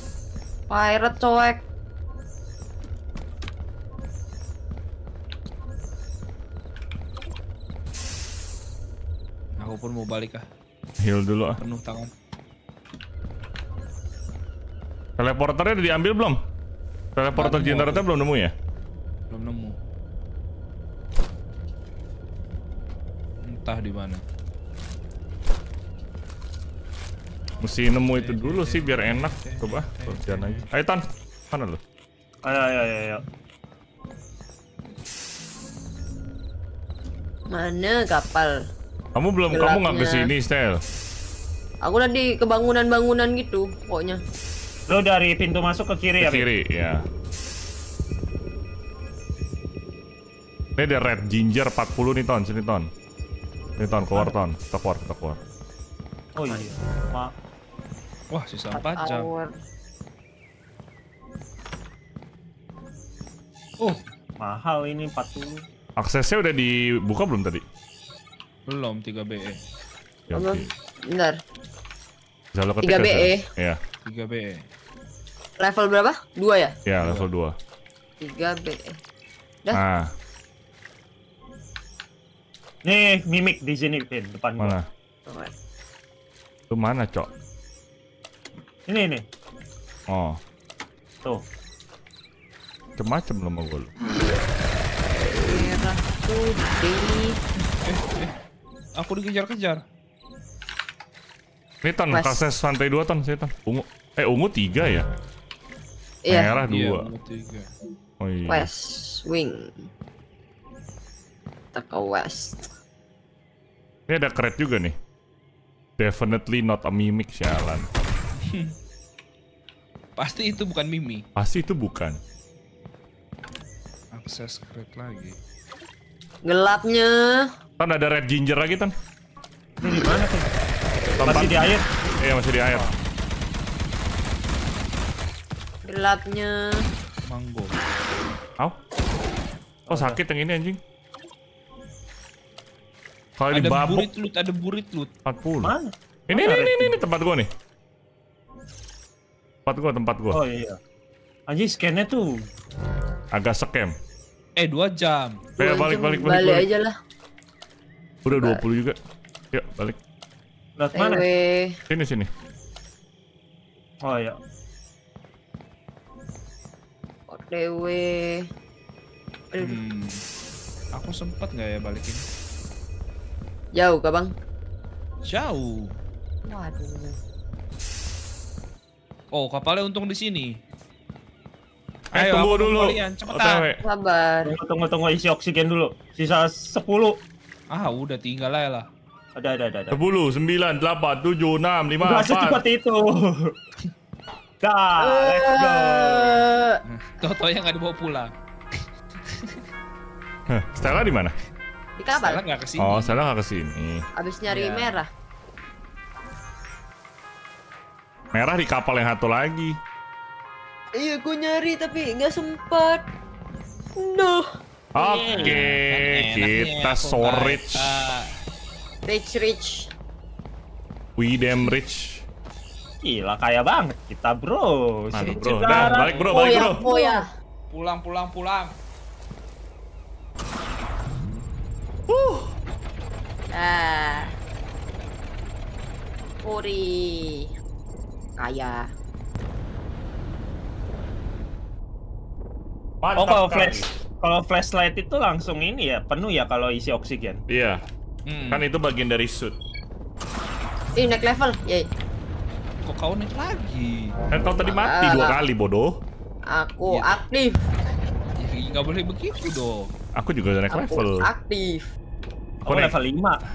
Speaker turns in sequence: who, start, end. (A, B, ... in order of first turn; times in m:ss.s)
0:00.7-0:01.6 A
0:09.6-0:10.4 B
0:11.0-0:11.6 C
0:11.6-0:12.1 B
0:15.2-0:16.4 C
0:17.2-0:18.5 C
0:17.4-0:18.1 B
0:19.3-0:19.8 B
0:23.4-0:24.2 B
0:27.6-0:31.8 C
0:28.2-0:30.7 B
0:32.4-0:33.2 D
0:37.5-0:38.6 A
0:39.2-0:40.8 C
0:39.5-0:40.3 A
0:41.8-0:44.2 A
0:44.9-0:46.5 D
0:46.2-0:47.0 C
0:50.8-0:52.9 C
0:53.8-0:55.4 C
0:56.4-0:57.3 D
0:58.3-0:59.3 B
0:58.7-0:59.5 A
1:03.8-1:05.6 D
1:06.0-1:07.6 C
1:08.7-1:09.6 B
1:10.3-1:10.7 C
1:10.4-1:11.4 A
1:12.5-1:13.8 C
1:12.8-1:13.5 A
1:14.0-1:14.7 B
1:15.6-1:16.8 A
1:16.9-1:17.6 C
1:17.0-1:17.3 B
1:18.2-1:19.0 A
1:19.7-1:20.1 C
1:22.8-1:24.8 D
1:24.6-1:24.9 C
1:25.3-1:25.5 A
1:26.7-1:27.3 C
1:28.9-1:29.2 D
1:30.1-1:30.4 C
1:33.0-1:33.9 C
1:35.3-1:37.4 A
1:37.8-1:38.3 B
1:39.0-1:39.8 B
1:41.8-1:45.1 C
1:42.1-1:42.4 A
1:46.2-1:46.6 A
1:46.3-1:47.1 C
1:46.7-1:47.7 B
1:48.2-1:48.7 C
1:48.5-1:49.9 A
1:51.7-1:52.7 A
1:54.1-1:55.0 C
1:56.0-1:57.9 C
1:58.4-1:58.8 B
2:00.2-2:01.2 B
2:01.4-2:02.2 C
2:04.1-2:05.4 B
2:06.4-2:07.5 A
2:07.8-2:08.9 C
2:09.8-2:10.5 D
2:11.2-2:12.9 C
2:11.2-2:11.8 D
2:15.8-2:16.9 A
2:17.3-2:17.8 B
2:19.9-2:20.2 D
2:19.9-2:20.8 C
2:23.4-2:24.1 C
2:23.5-2:25.1 B
2:25.2-2:25.7 C
2:25.6-2:27.0 D
2:26.3-2:27.5 C
2:29.7-2:30.4 C
2:30.3-2:30.8 D
2:31.5-2:32.3 D
2:33.3-2:33.9 C
2:34.6-2:35.5 B
2:35.6-2:36.7 C
2:35.6-2:36.9 A
2:38.2-2:39.0 C
2:38.3-2:38.6 A
2:39.5-2:40.0 C
2:40.8-2:41.3 D
2:41.0-2:41.8 A
2:41.9-2:42.3 C
2:44.0-2:44.4 D
2:47.3-2:48.5 A
2:49.5-2:49.8 A
2:49.6-2:50.2 B
2:50.9-2:52.3 B
2:53.7-2:54.3 A
2:55.2-2:55.9 B
2:56.5-2:57.2 A
2:59.3-3:00.6 B
3:02.1-3:03.7 B
3:02.1-3:03.8 C
3:03.8-3:04.6 A
3:04.4-3:07.2 D
3:07.7-3:08.9 B
3:09.4-3:10.0 D
3:09.9-3:12.6 C
3:12.0-3:13.5 D
3:14.6-3:16.5 D
3:15.0-3:17.3 A
3:16.9-3:19.6 B
3:20.5-3:21.3 C
3:22.0-3:22.4 A
3:22.1-3:23.3 B
3:22.8-3:24.0 C
3:24.2-3:25.1 A
3:24.5-3:25.0 B
3:28.3-3:29.8 C
3:31.0-3:33.1 A
3:34.0-3:34.4 A
3:35.0-3:37.9 C
3:35.0-3:35.6 A
3:35.2-3:38.3 B
3:39.1-3:39.9 A
3:41.2-3:42.2 C
3:43.0-3:46.2 D
3:45.1-3:46.8 C
3:45.2-3:48.8 B
3:46.3-3:47.3 A
3:52.1-3:52.5 C
3:53.5-3:54.3 A
3:56.4-3:57.5 A
3:58.4-3:58.9 A
4:03.0-4:03.9 C
4:03.2-4:07.4 D
4:07.5-4:07.8 C
4:08.3-4:08.6 B
4:08.5-4:09.6 C
4:11.0-4:11.9 A
4:12.8-4:14.2 B
4:14.3-4:16.0 C
4:14.6-4:15.4 A
4:16.5-4:17.6 A
4:18.4-4:19.9 B
4:20.2-4:21.3 C
4:20.7-4:21.9 A
4:22.6-4:23.0 C
4:22.7-4:23.4 D